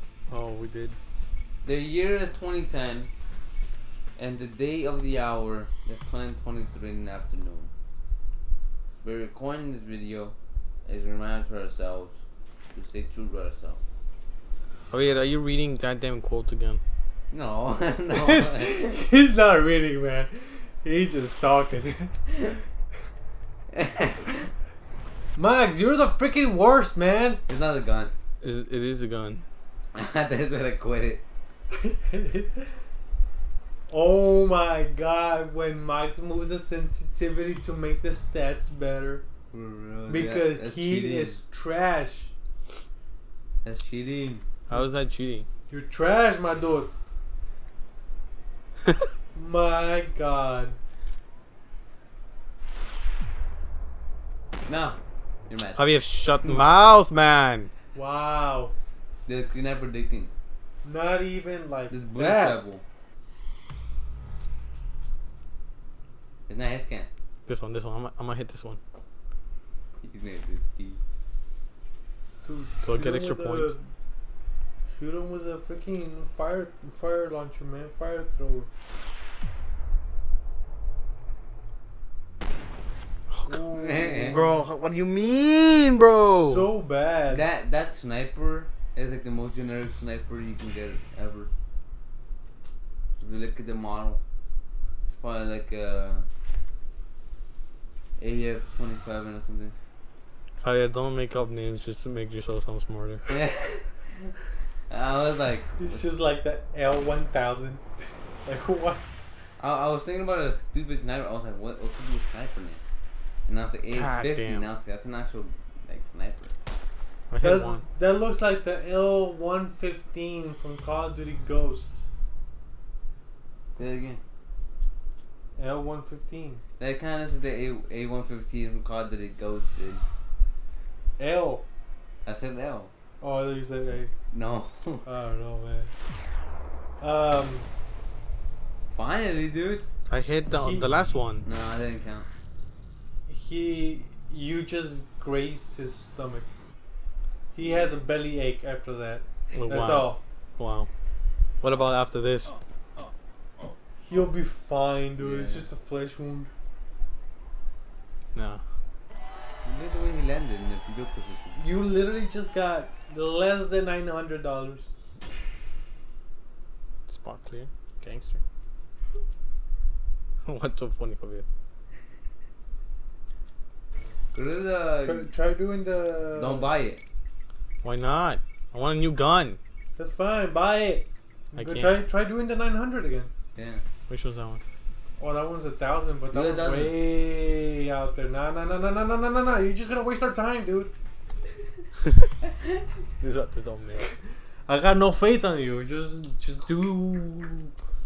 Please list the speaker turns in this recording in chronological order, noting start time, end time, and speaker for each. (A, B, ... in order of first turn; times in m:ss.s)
0:00.3-0:01.0 A
0:01.6-0:03.1 B
0:04.2-0:07.7 B
0:09.0-0:12.2 B
0:12.7-0:13.8 B
0:14.9-0:16.8 A
0:17.3-0:19.0 B
0:18.1-0:22.1 C
0:22.3-0:22.6 B
0:23.7-0:24.5 B
0:25.4-0:27.4 C
0:27.5-0:28.1 B
0:28.4-0:29.4 A
0:29.9-0:31.2 B
0:31.8-0:32.7 C
0:33.9-0:39.2 C
0:39.5-0:41.4 B
0:40.1-0:42.3 C
0:43.6-0:44.4 B
0:44.7-0:45.4 A
0:45.7-0:46.9 C
0:49.3-0:50.8 C
0:54.6-0:55.9 B
0:55.8-0:57.7 A
0:57.9-0:58.7 C
0:59.2-1:00.3 B
1:00.8-1:02.6 C
1:01.9-1:02.8 B
1:06.5-1:07.1 B
1:07.4-1:08.8 A
1:10.0-1:11.0 B
1:12.4-1:13.8 C
1:12.8-1:13.7 A
1:14.9-1:18.7 C
1:23.3-1:26.6 A
1:23.5-1:24.6 C
1:23.7-1:24.4 B
1:26.4-1:27.4 C
1:27.3-1:31.5 B
1:33.2-1:34.2 B
1:35.1-1:36.2 B
1:38.2-1:39.7 B
1:40.6-1:43.2 A
1:43.3-1:44.3 B
1:44.9-1:46.1 B
1:45.8-1:47.8 C
1:48.4-1:49.0 C
1:49.6-1:52.8 B
1:53.5-1:56.5 B
1:53.9-1:54.6 A
1:57.3-1:57.8 A
1:57.4-2:02.1 C
2:03.7-2:04.2 B
2:05.6-2:06.6 C
2:06.8-2:10.0 B
2:11.2-2:11.6 C
2:12.2-2:12.9 B
2:13.2-2:14.1 C
2:14.3-2:15.0 B
2:15.0-2:15.9 C
2:17.0-2:17.7 C
2:18.9-2:19.8 B
2:20.1-2:21.4 A
2:20.5-2:21.0 C
2:21.4-2:22.3 B
2:23.3-2:26.5 C
2:27.5-2:30.2 C
2:27.6-2:27.9 B
2:29.5-2:30.9 A
2:31.6-2:32.5 A
2:34.0-2:36.5 C
2:35.2-2:35.7 B
2:38.3-2:38.6 A
2:39.6-2:41.6 B
2:41.6-2:44.9 C
2:47.1-2:48.4 A
2:50.4-2:51.4 A
2:54.3-2:55.3 B
2:55.0-2:56.7 C
2:56.3-2:57.0 B
2:57.8-2:59.6 A
3:00.0-3:03.3 C
3:01.5-3:01.9 A
3:03.5-3:03.8 B
3:04.1-3:04.6 A
3:05.2-3:10.9 C
3:06.3-3:07.0 B
3:13.2-3:14.1 A
3:14.7-3:17.7 C